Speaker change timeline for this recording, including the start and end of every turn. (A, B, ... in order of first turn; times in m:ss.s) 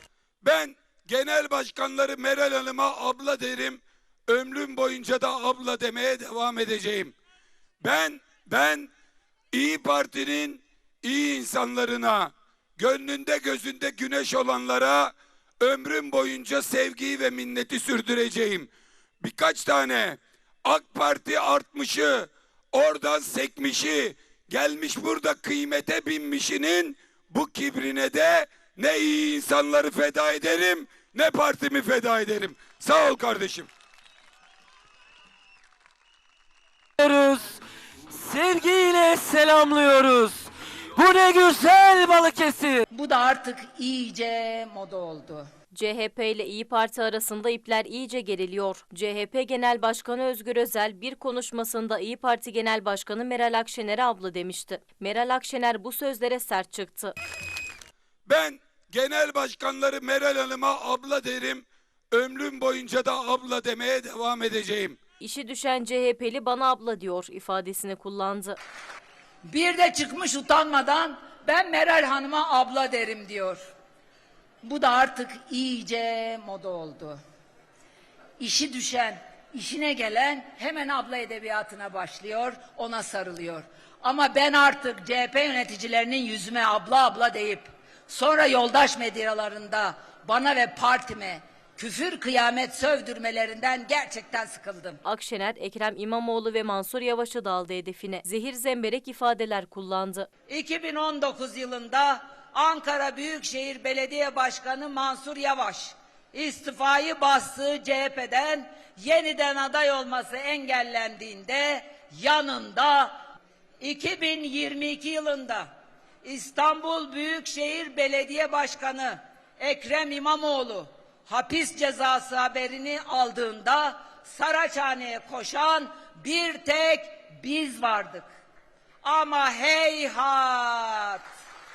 0:00.4-0:07.1 A
0:07.8-0:08.9 A
0:09.5-0:33.7 A
0:37.0-0:37.5 B
0:38.1-0:42.8 B
0:42.9-0:45.4 C
0:45.7-0:57.1 D
0:58.2-1:05.0 A
1:05.2-1:08.6 D
1:09.5-1:13.6 C
1:14.6-1:17.2 C
1:18.4-1:35.0 C
1:35.0-1:40.3 D
1:40.5-1:53.1 C
1:53.8-1:55.7 C
1:56.2-2:08.2 C
2:09.0-2:11.2 C